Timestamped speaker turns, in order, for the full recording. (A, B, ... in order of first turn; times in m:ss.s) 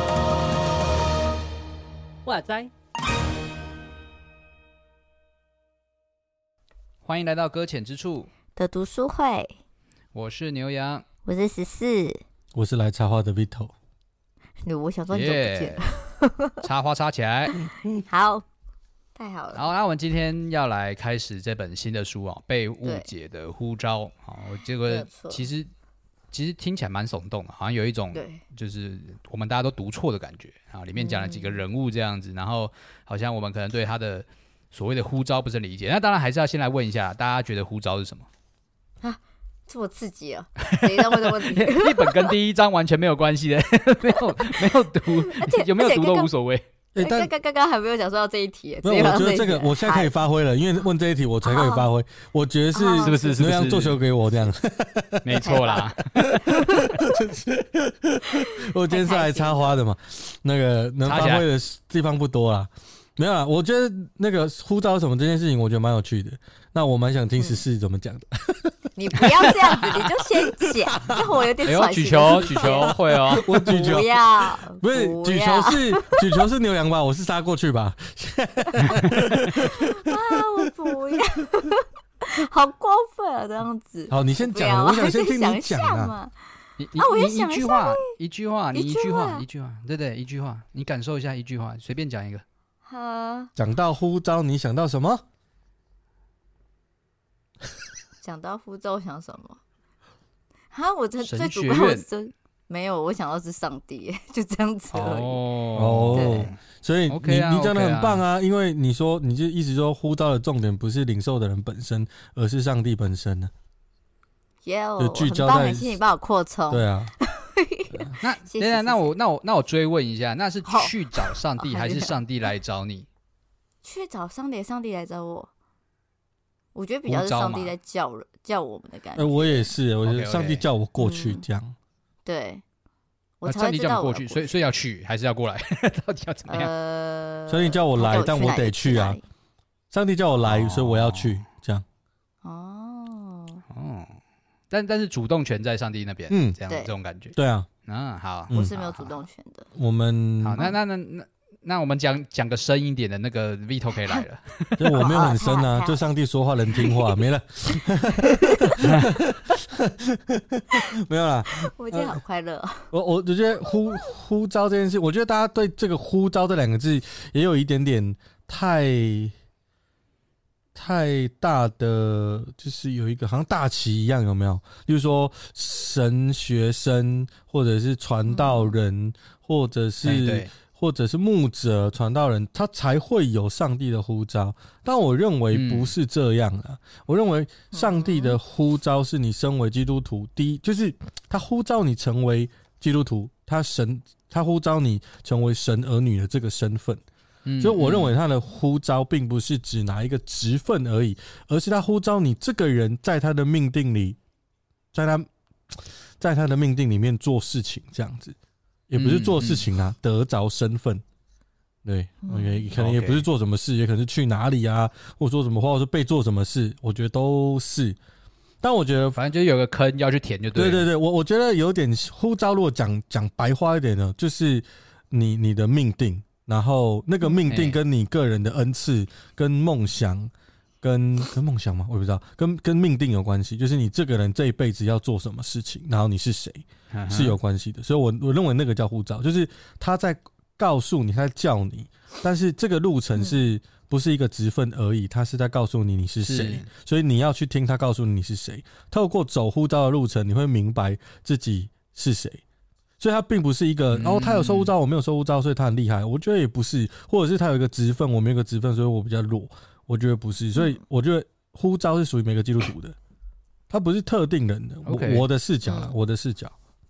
0:07.0-0:08.3 A
0:08.5-0:09.6 B
0:10.1-0:11.0 A
0:11.3-0:12.2 B
0:12.5-0:13.7 C
0:14.6-0:16.6 B
0:15.1-0:15.8 A
0:16.6-0:17.6 A
0:17.6-0:18.4 B
0:19.2-0:19.7 B
0:19.5-0:25.7 A
0:24.8-0:25.5 B
0:26.3-0:38.3 A
0:28.1-0:28.4 B
0:31.0-0:31.6 B
0:39.0-0:42.3 B
0:40.7-0:46.7 A
0:45.2-0:46.3 B
0:47.0-0:47.3 C
0:47.0-0:50.1 B
0:48.8-0:55.8 C
0:51.4-0:51.9 B
0:52.7-0:53.4 B
0:53.0-0:54.0 A
0:55.2-0:56.4 A
0:55.4-0:55.9 B
0:56.4-0:57.0 B
0:57.0-1:11.3 C
0:58.4-0:59.8 B
1:01.0-1:01.4 A
1:07.4-1:07.6 B
1:09.0-1:13.0 B
1:11.6-1:13.6 A
1:12.6-1:20.4 C
1:13.6-1:16.4 B
1:18.8-1:19.6 A
1:19.6-1:28.1 B
1:24.1-1:26.1 C
1:26.8-1:32.4 A
1:28.7-1:29.4 B
1:32.9-1:33.5 B
1:33.6-1:35.2 C
1:38.2-1:39.6 B
1:40.7-1:45.4 B
1:41.2-1:42.0 A
1:44.9-1:46.6 A
1:45.8-1:53.5 C
1:46.1-1:46.5 B
1:47.1-1:48.2 A
1:54.6-1:59.2 B
1:55.0-1:56.0 C
1:56.7-1:57.1 C
1:58.2-2:03.1 A
2:00.6-2:02.2 B
2:03.8-2:05.5 B
2:06.8-2:09.7 B
2:07.1-2:07.7 A
2:09.2-2:11.8 C
2:10.0-2:10.6 A
2:11.0-2:11.4 B
2:12.2-2:12.6 B
2:13.4-2:14.6 B
2:13.4-2:16.7 A
2:16.5-2:19.2 B
2:17.5-2:19.2 C
2:19.9-2:21.8 C
2:20.4-2:21.4 A
2:22.4-2:23.6 B
2:23.7-2:29.1 A
2:26.3-2:26.6 C
2:26.7-2:26.9 B
2:27.3-2:27.7 C
2:28.5-2:29.7 B
2:29.8-2:30.7 C
2:30.4-2:35.0 A
2:34.8-2:42.2 C
2:34.9-2:36.0 B
2:36.8-2:37.1 B
2:38.2-2:38.8 B
2:41.5-2:42.9 B
2:42.9-2:49.3 C
2:43.7-2:44.0 B
2:50.8-3:17.0 C
2:58.3-2:58.8 B
3:00.0-3:00.5 A
3:05.5-3:05.9 A
3:07.7-3:08.4 B
3:17.5-3:18.1 A
3:17.6-3:24.2 C
3:24.9-3:28.4 C
3:28.9-3:31.0 C
3:29.0-3:29.7 A
3:31.8-3:38.0 C
3:32.2-3:32.7 B
3:32.8-3:33.2 A
3:38.6-3:39.2 C
3:39.2-3:40.9 A
3:40.5-4:12.4 C
3:47.5-3:47.8 A
3:56.9-3:57.4 A
4:06.2-4:06.7 A
4:13.0-4:23.0 C
4:13.9-4:14.7 A
4:23.7-4:26.6 C
4:24.8-4:25.2 A
4:25.6-4:25.9 B